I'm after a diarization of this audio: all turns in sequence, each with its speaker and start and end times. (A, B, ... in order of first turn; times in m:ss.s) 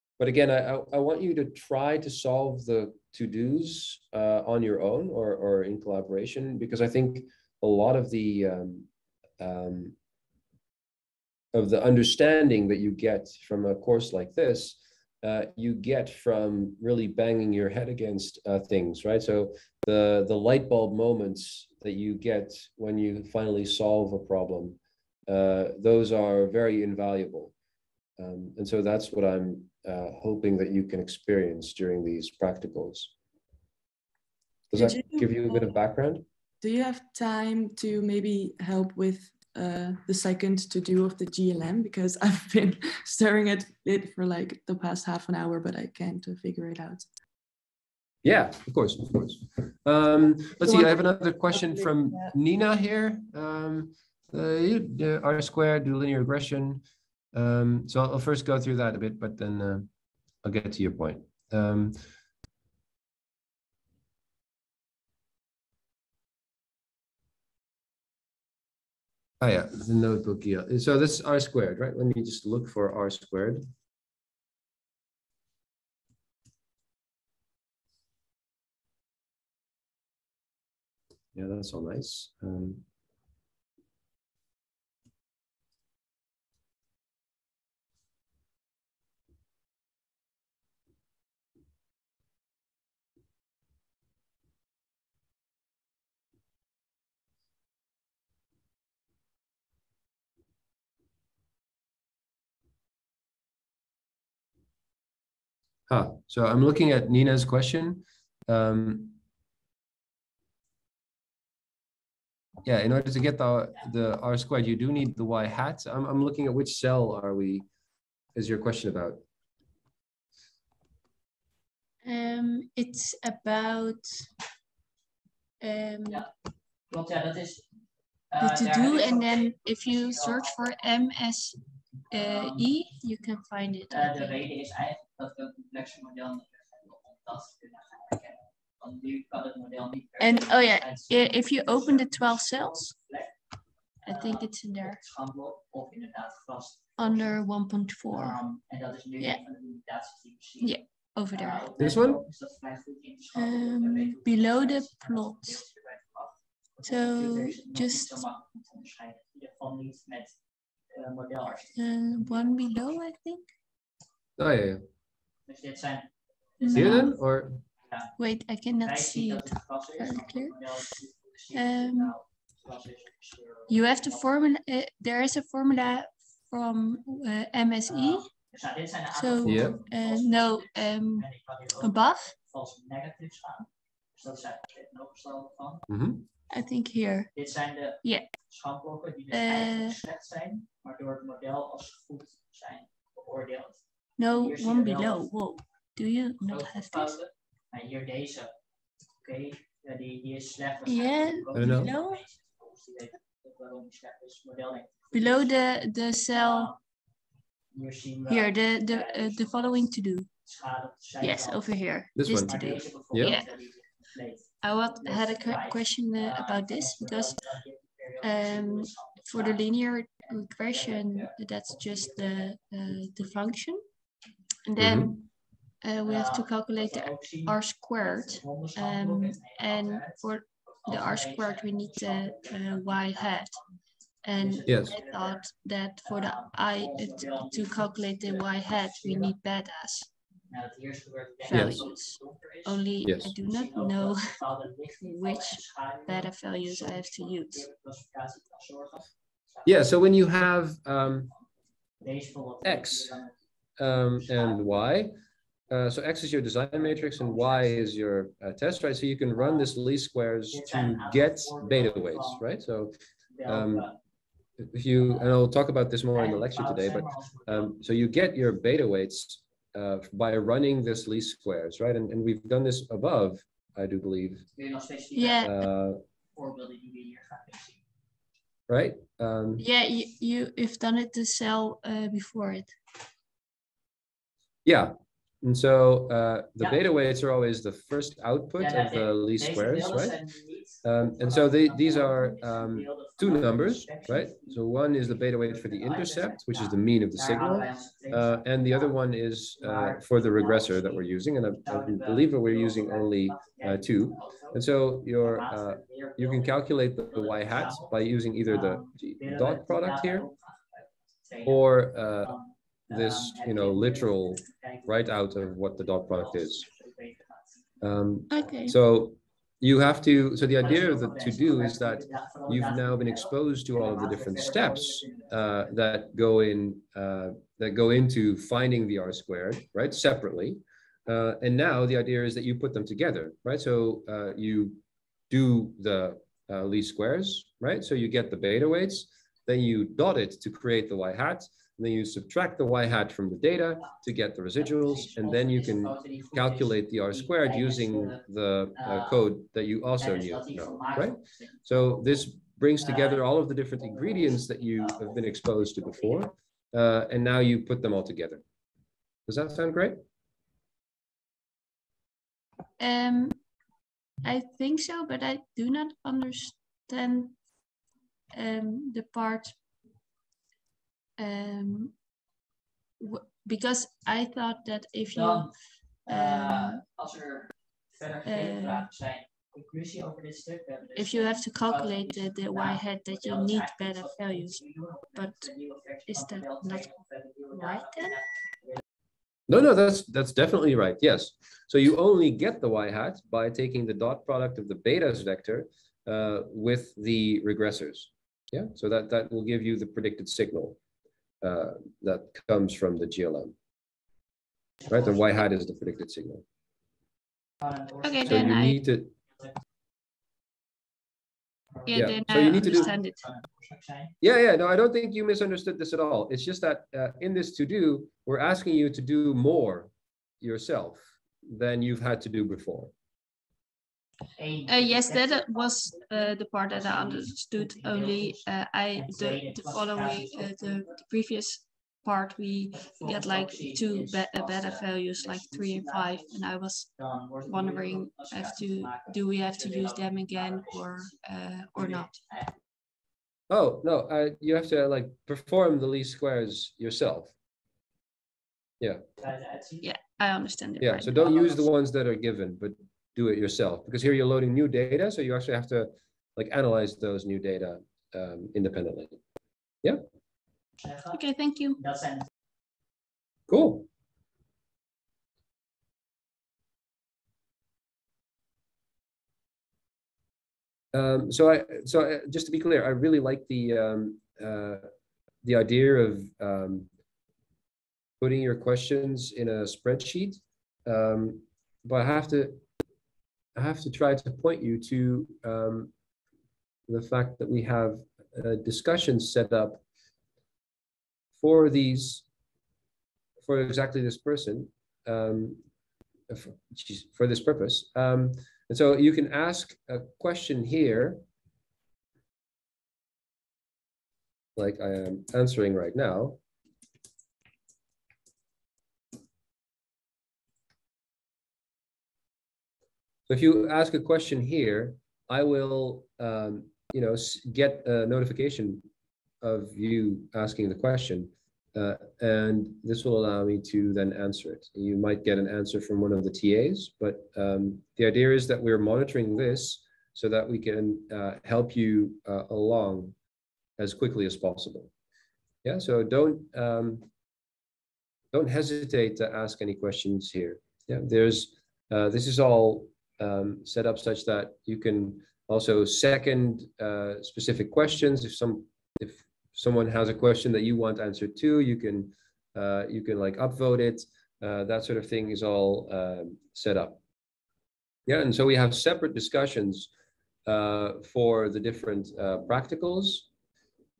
0:00.2-0:08.9 A
0:09.4-0:09.9 A
0:11.5-0:27.5 A
0:28.2-0:33.1 A
0:34.7-0:36.2 A
0:36.6-0:47.0 B
0:48.2-0:56.8 A
0:57.3-0:59.9 A
1:00.4-1:02.0 A
1:09.4-1:13.6 A
1:21.3-1:22.8 A
1:45.9-1:49.2 A
1:52.6-1:57.6 A
1:58.4-1:59.2 A
2:02.0-2:04.2 C
2:05.6-2:06.3 C
2:06.9-2:07.6 D
2:08.3-2:10.9 D
2:08.4-2:11.6 C
2:12.1-2:12.7 D
2:12.1-2:14.4 C
2:13.9-2:23.3 D
2:20.2-2:22.9 C
2:24.0-2:25.0 C
2:24.1-2:27.4 D
2:27.0-2:28.4 C
2:28.1-2:40.3 D
2:30.6-2:31.7 C
2:31.8-2:32.2 A
2:33.3-2:35.6 C
2:36.8-2:38.2 C
2:40.9-2:42.7 D
2:41.7-2:43.5 C
2:44.4-2:44.8 A
2:45.4-2:47.2 D
2:46.6-2:47.1 C
2:46.7-2:47.6 A
2:47.8-2:48.1 D
2:48.2-2:50.6 C
2:48.8-2:54.4 D
2:51.5-2:52.2 C
2:53.7-2:58.3 C
2:57.9-3:05.8 D
2:59.1-3:01.3 C
2:59.4-2:59.8 A
3:01.8-3:02.3 C
3:05.9-3:06.2 A
3:06.5-3:07.3 C
3:07.3-3:15.3 D
3:08.0-3:08.3 C
3:09.3-3:10.0 C
3:14.2-3:17.2 C
3:16.4-3:18.5 D
3:19.2-3:25.6 D
3:20.8-3:22.2 C
3:21.5-3:21.9 A
3:25.1-3:26.7 C
3:26.3-3:26.8 D
3:27.7-3:29.8 D
3:28.3-3:30.3 C
3:30.4-3:31.8 D
3:31.2-3:33.5 C
3:32.2-3:32.6 A
3:32.3-3:43.6 D
3:34.6-3:37.4 C
3:38.2-3:43.8 C
3:44.6-3:45.2 C
3:44.8-3:45.2 A
3:45.8-3:53.6 C
3:46.0-3:50.3 D
3:50.8-3:53.7 D
3:54.2-4:00.1 C
3:54.3-3:59.3 D
3:54.7-3:54.9 A
4:00.5-4:09.9 D
4:01.4-4:04.4 C
4:01.5-4:01.8 A
4:03.0-4:03.3 A
4:05.0-4:07.7 C
4:09.6-4:11.3 A
4:12.0-4:13.3 D
4:12.6-4:13.1 A
4:13.8-4:15.1 A
4:14.1-4:14.8 D
4:15.7-4:22.9 A
4:16.7-4:17.9 D
4:19.4-4:19.7 D
4:20.5-4:22.4 D
4:23.3-4:24.0 D
4:23.4-4:23.9 A
4:24.6-4:34.4 A
4:26.1-4:27.7 D
4:34.6-4:35.5 D
4:35.1-4:35.6 C
4:35.4-4:36.0 A
4:36.3-4:37.8 D
4:38.7-4:39.6 A
4:39.6-4:42.7 C
4:44.6-4:50.2 A
4:48.6-4:58.9 D
4:50.8-5:10.3 A
4:59.6-5:01.0 D
5:01.6-5:04.6 D
5:05.2-5:06.5 D
5:07.1-5:17.6 D
5:11.4-5:12.3 A
5:12.9-5:16.7 A
5:17.8-5:34.8 A
5:18.3-5:18.8 C
5:20.6-5:25.6 D
5:35.3-5:58.4 A
5:44.6-5:48.2 D
5:48.8-5:49.2 D
5:50.0-5:51.6 D
5:52.8-5:56.3 D
5:59.3-6:00.0 A
6:02.8-6:03.4 C
6:04.2-6:07.4 C
6:08.3-6:09.6 C
6:11.2-6:11.9 C
6:13.0-6:15.5 C
6:15.1-6:15.5 D
6:16.0-6:28.8 D
6:16.1-6:16.8 C
6:18.2-6:18.9 C
6:21.0-6:24.6 C
6:25.1-6:25.5 C
6:26.1-6:26.9 C
6:27.5-6:28.2 C
6:29.5-6:40.8 A
6:41.4-6:43.5 A
6:44.8-6:45.3 D
6:44.9-6:46.4 A
6:47.6-6:48.7 D
6:48.0-6:48.8 C
6:48.2-6:49.1 A
6:49.3-6:49.5 D
6:51.8-6:54.1 D
6:51.9-6:53.2 C
6:51.9-6:52.8 A
6:54.2-7:02.9 A
7:04.4-7:11.0 D
7:04.7-7:16.9 C
7:12.7-7:16.4 D
7:17.0-7:22.5 D
7:17.4-7:22.2 C
7:23.5-7:27.3 A
7:29.2-7:30.0 D
7:29.8-7:31.2 C
7:30.8-7:39.2 A
7:31.1-7:31.6 D
7:40.8-7:41.2 D
7:41.1-7:41.8 C
7:41.8-7:42.2 D
7:43.5-7:43.8 A
7:50.9-7:54.9 A
7:55.4-7:56.9 A
7:58.2-8:02.6 A
8:03.6-8:05.9 A
8:06.9-8:09.8 A
8:11.4-8:12.2 A
8:13.4-8:15.6 A
8:16.3-8:21.2 A
8:24.6-8:26.4 A
8:33.3-8:38.8 A
8:39.4-8:53.1 A
8:53.8-8:54.9 A
8:55.6-8:57.1 A
8:58.3-9:17.0 A
9:18.1-9:19.9 A
9:20.4-9:23.3 A